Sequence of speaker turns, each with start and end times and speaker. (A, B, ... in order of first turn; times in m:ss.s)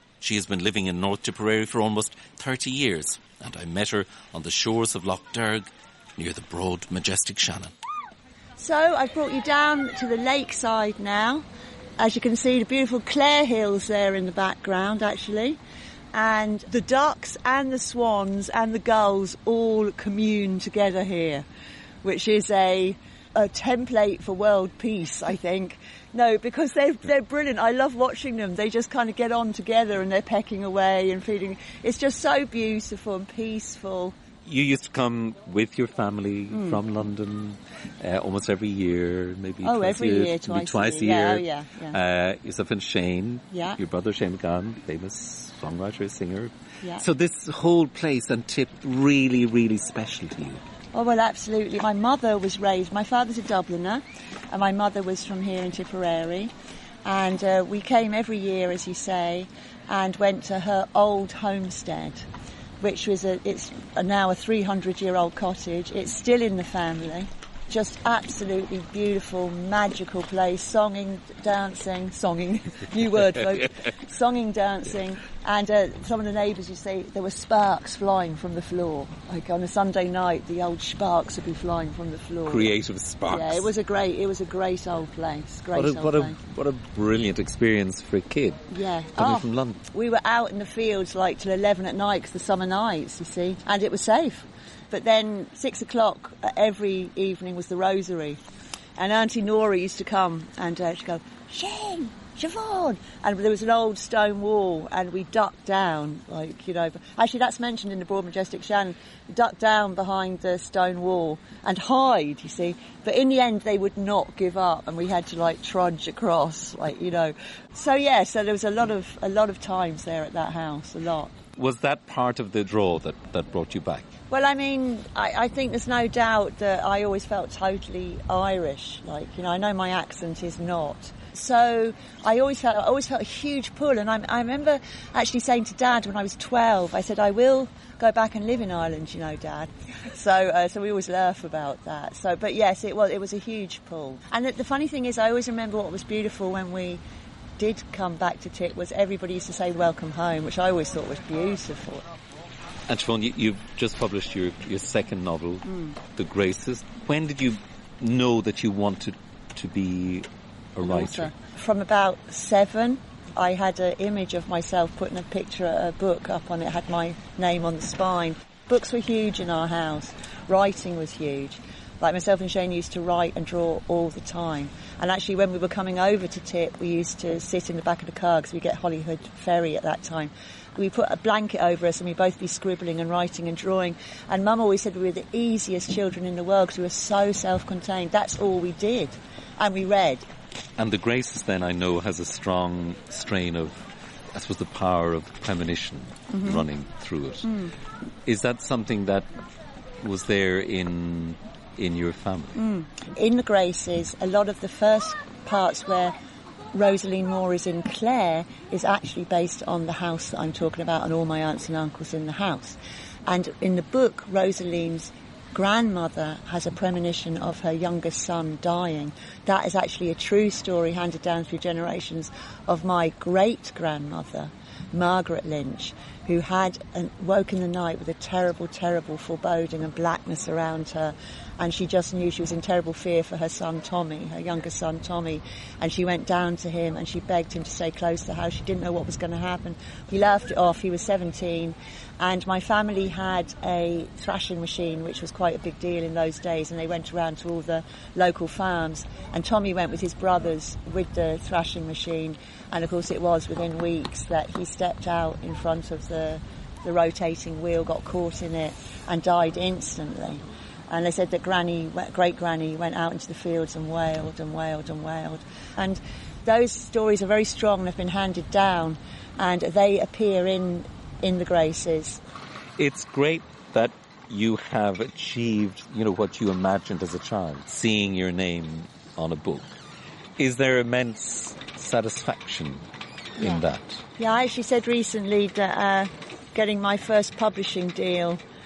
0:00.2-0:07.7 A
0:08.6-0:11.4 B
0:12.0-0:15.6 B
0:16.1-0:21.4 B
0:22.0-0:34.1 B
0:34.4-0:50.6 A
0:36.5-0:36.8 B
0:39.6-0:42.0 B
0:43.5-0:43.8 B
0:50.9-0:56.5 B
0:57.0-1:02.2 B
1:02.8-1:22.8 B
1:22.4-1:23.7 A
1:23.3-1:26.4 B
1:25.7-1:28.6 A
1:28.7-1:38.4 B
1:29.2-1:29.8 A
1:39.0-2:01.3 B
2:01.6-2:04.1 A
2:04.3-2:27.0 B
2:27.6-2:32.0 B
2:32.9-2:35.6 A
2:35.7-2:36.0 B
2:36.2-2:41.3 A
2:40.8-3:10.2 B
3:10.8-3:17.5 A
3:16.3-3:16.6 B
3:17.4-3:17.7 B
3:18.2-3:19.3 A
3:20.0-3:22.6 A
3:22.6-3:26.1 B
3:26.7-4:32.2 B
4:32.8-4:39.8 A
4:40.4-4:44.0 A
4:43.4-4:43.6 B
4:44.2-4:48.4 B